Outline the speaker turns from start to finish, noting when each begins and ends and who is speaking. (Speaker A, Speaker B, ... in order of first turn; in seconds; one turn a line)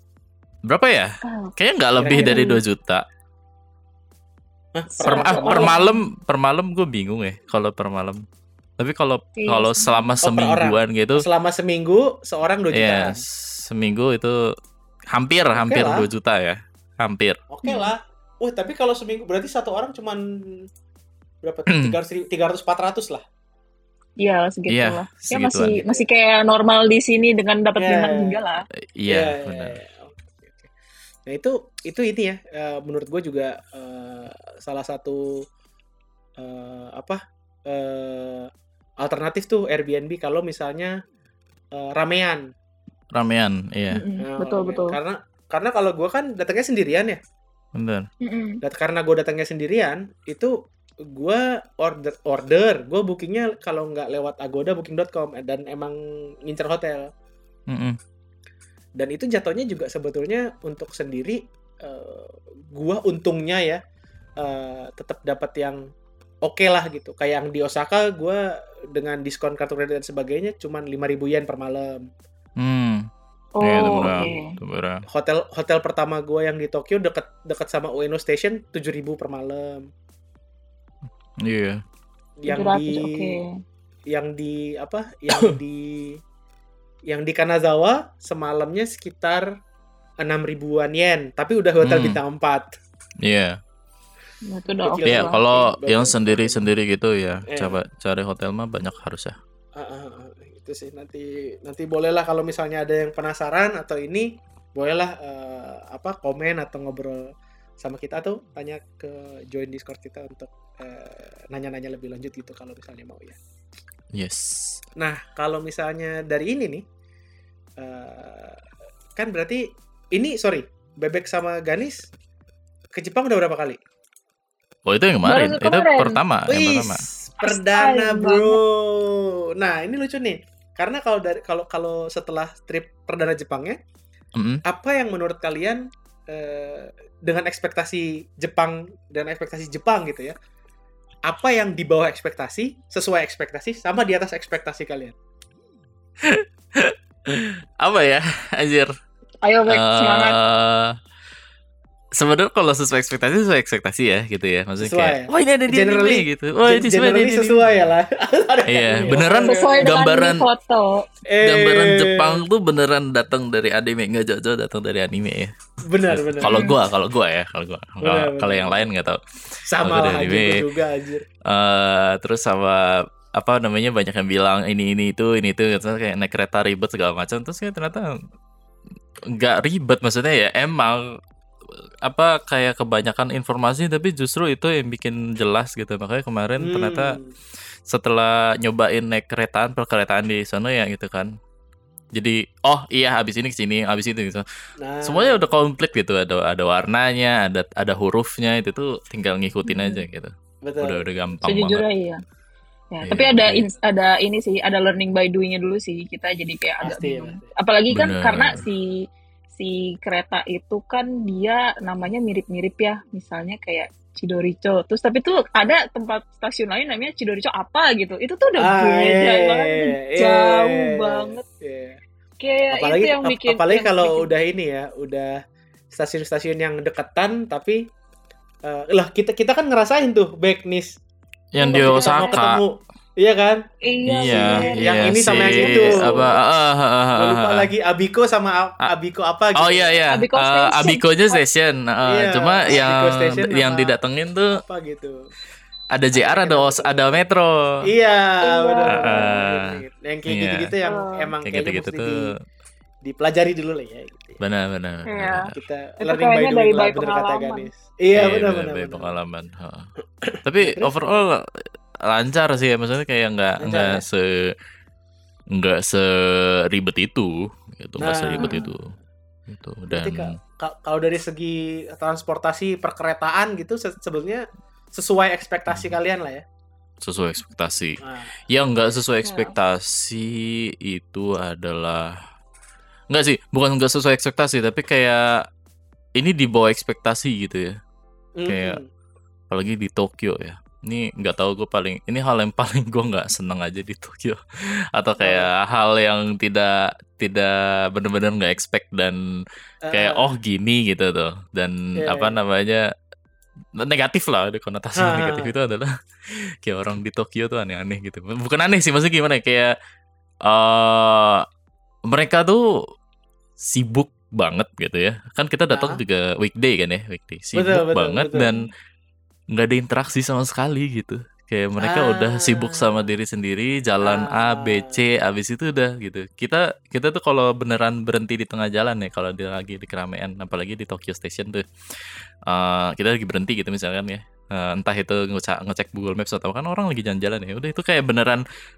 Speaker A: 0.7-3.0
Speaker B: 1.2-1.5
Speaker C: 2.0-2.5
Speaker B: 2.1-2.6
Speaker C: 4.7-5.8
Speaker B: 5.0-6.0
Speaker A: 5.0-8.2
Speaker A: 8.8-11.2
Speaker B: 9.4-9.9
Speaker C: 10.2-13.2
Speaker A: 12.7-14.5
Speaker A: 15.1-17.4
Speaker C: 15.5-16.1
Speaker C: 17.5-20.7
Speaker B: 17.6-17.9
Speaker C: 21.4-23.2
Speaker A: 21.7-21.9
Speaker B: 24.2-28.6
Speaker A: 24.7-25.8
Speaker C: 25.7-26.0
Speaker C: 27.8-28.4
Speaker A: 29.0-29.8
Speaker C: 29.1-30.7
Speaker C: 31.3-35.3
Speaker C: 36.4-40.9
Speaker C: 41.7-42.5
Speaker A: 43.1-44.0
Speaker B: 43.9-45.0
Speaker C: 44.2-47.2
Speaker A: 47.8-48.1
Speaker B: 48.2-48.6
Speaker C: 48.6-50.5
Speaker C: 51.1-57.1
Speaker A: 57.7-58.0
Speaker C: 59.0-63.8
Speaker C: 64.4-65.8
Speaker C: 66.4-72.1
Speaker A: 72.6-73.1
Speaker B: 73.6-74.5
Speaker A: 73.6-75.0
Speaker C: 75.1-79.9
Speaker A: 81.4-81.8
Speaker C: 82.4-83.4
Speaker B: 82.5-83.6
Speaker C: 84.1-86.2
Speaker C: 87.1-89.5
Speaker C: 90.2-92.7
Speaker A: 91.8-92.2
Speaker A: 93.2-93.6
Speaker B: 94.5-95.4
Speaker C: 94.8-96.6
Speaker A: 95.0-99.4
Speaker C: 97.5-97.8
Speaker C: 99.8-107.3
Speaker C: 107.8-113.4
Speaker A: 114.1-114.8
Speaker C: 115.0-116.8
Speaker C: 117.8-118.6
Speaker C: 119.2-122.1
Speaker C: 122.9-123.8
Speaker A: 124.8-127.0
Speaker B: 125.2-126.2
Speaker C: 126.5-133.8
Speaker B: 127.4-128.6
Speaker A: 134.3-134.6
Speaker C: 134.7-140.3
Speaker C: 141.3-145.1
Speaker A: 146.2-148.9
Speaker B: 149.4-150.3
Speaker A: 149.7-150.9
Speaker A: 152.1-157.6
Speaker C: 154.8-160.0
Speaker A: 158.7-160.4
Speaker B: 159.4-161.0
Speaker C: 161.3-162.4
Speaker A: 161.4-165.5
Speaker C: 165.8-166.6
Speaker A: 166.1-170.7
Speaker B: 166.4-166.7
Speaker C: 168.0-168.9
Speaker C: 169.7-171.2
Speaker A: 171.4-178.2
Speaker A: 179.3-181.0
Speaker A: 182.0-187.2
Speaker C: 186.6-187.3
Speaker A: 187.9-191.3
Speaker A: 192.1-194.4
Speaker C: 194.8-195.4
Speaker A: 195.0-201.8
Speaker B: 199.7-200.0
Speaker C: 200.6-201.0
Speaker B: 201.4-202.2
Speaker B: 202.9-209.0
Speaker A: 203.0-203.7
Speaker C: 206.8-207.4
Speaker A: 207.9-208.6
Speaker B: 209.6-221.4
Speaker C: 218.6-222.0
Speaker B: 222.4-224.3
Speaker C: 222.7-225.4
Speaker C: 225.9-227.8
Speaker C: 228.6-231.0
Speaker A: 231.5-232.6
Speaker B: 231.6-232.4
Speaker C: 231.7-233.6
Speaker B: 233.8-236.3
Speaker A: 234.1-237.7
Speaker C: 234.2-236.3
Speaker C: 237.1-240.0
Speaker A: 239.6-244.6
Speaker B: 240.1-241.4
Speaker C: 242.1-243.9
Speaker C: 244.5-245.2
Speaker A: 245.9-247.7
Speaker C: 246.1-247.2
Speaker C: 247.8-252.2
Speaker B: 248.4-249.3
Speaker A: 248.9-250.7
Speaker B: 250.8-251.3
Speaker A: 251.4-252.2
Speaker C: 253.0-254.4
Speaker A: 254.4-255.5
Speaker B: 255.1-255.5
Speaker C: 255.5-259.1
Speaker B: 256.0-257.7
Speaker A: 258.1-259.9
Speaker C: 260.2-261.0
Speaker A: 260.4-261.4
Speaker A: 262.1-264.5
Speaker C: 263.6-264.0
Speaker A: 265.5-268.9
Speaker C: 268.0-268.6
Speaker B: 268.4-268.6
Speaker A: 269.5-270.4
Speaker C: 269.9-276.4
Speaker A: 277.0-282.1
Speaker C: 278.0-278.3
Speaker B: 279.2-279.5
Speaker A: 283.1-285.4
Speaker A: 286.2-287.8
Speaker C: 288.4-288.9
Speaker A: 288.4-288.8
Speaker A: 289.5-294.4
Speaker A: 294.9-299.2
Speaker C: 295.2-295.5
Speaker C: 299.8-300.3
Speaker A: 299.9-302.8
Speaker C: 302.0-302.4
Speaker A: 303.8-309.7
Speaker C: 304.9-305.5
Speaker A: 310.4-311.4
Speaker A: 312.1-312.7
Speaker A: 313.6-318.6
Speaker C: 315.7-316.0
Speaker C: 317.5-318.5
Speaker A: 319.5-338.4
Speaker C: 321.8-323.1
Speaker C: 324.0-325.0